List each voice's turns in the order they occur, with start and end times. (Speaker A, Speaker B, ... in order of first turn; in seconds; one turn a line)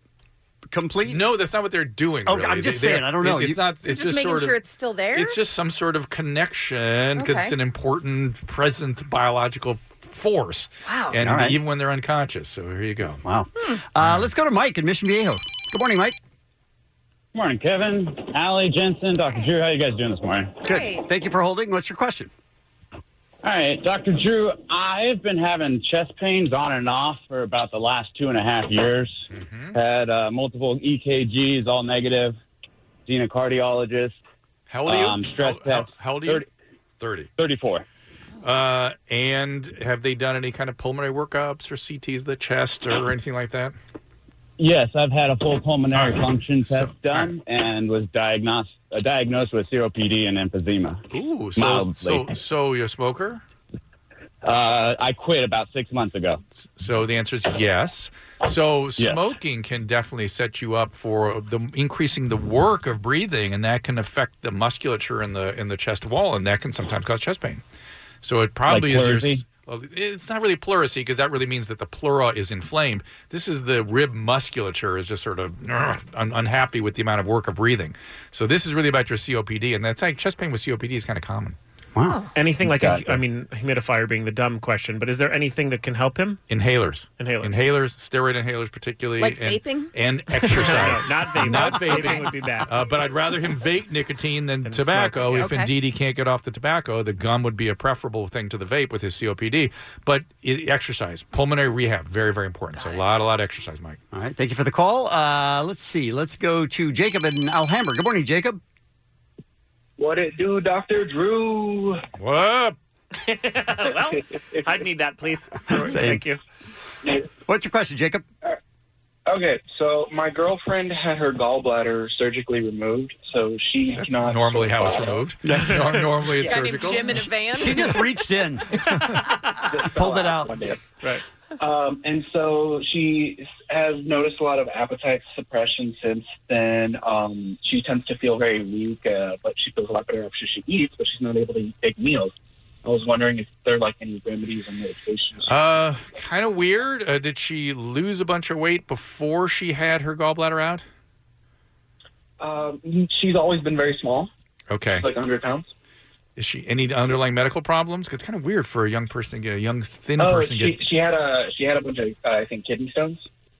Speaker A: 0.7-1.3
Speaker B: 1.1-4.6
Speaker A: 2.2-3.6
Speaker C: 3.8-5.4
Speaker B: 5.1-13.2
Speaker C: 7.2-7.5
Speaker C: 10.8-11.2
Speaker A: 11.1-11.6
Speaker A: 13.2-16.2
Speaker B: 14.0-14.3
Speaker D: 17.3-20.6
Speaker A: 20.6-22.3
Speaker C: 20.6-21.0
Speaker D: 23.4-29.2
Speaker B: 29.3-29.8
Speaker D: 29.7-32.4
Speaker D: 33.1-34.1
Speaker B: 34.7-36.4
Speaker D: 34.9-36.5
Speaker B: 37.0-37.3
Speaker D: 37.4-37.8
Speaker B: 38.4-43.7
Speaker D: 44.6-51.0
Speaker B: 46.7-47.3
Speaker B: 51.1-53.4
Speaker D: 51.5-52.3
Speaker D: 54.4-56.4
Speaker B: 56.5-67.6
Speaker B: 68.2-81.5
Speaker D: 68.7-69.5
Speaker A: 81.9-82.2
Speaker C: 82.0-82.3
Speaker E: 82.3-86.4
Speaker B: 86.5-104.0
Speaker E: 87.2-87.7
Speaker C: 89.2-89.9
Speaker E: 90.4-92.7
Speaker C: 91.5-92.2
Speaker E: 94.6-95.5
Speaker C: 95.4-95.7
Speaker A: 104.1-108.6
Speaker F: 110.0-112.0
Speaker B: 112.2-112.8
Speaker E: 113.2-116.4
Speaker F: 114.1-114.8
Speaker A: 117.5-118.2
Speaker F: 119.3-125.2
Speaker B: 124.0-127.3
Speaker A: 125.5-125.8
Speaker C: 126.4-128.1
Speaker A: 127.5-128.9
Speaker F: 129.7-130.8
Speaker A: 129.9-130.6
Speaker F: 131.6-142.3
Speaker F: 142.8-145.8
Speaker B: 145.4-150.8
Speaker F: 152.4-154.3
Speaker B: 154.7-155.1
Speaker F: 155.0-155.7
Speaker B: 156.4-160.8
Speaker F: 160.2-163.2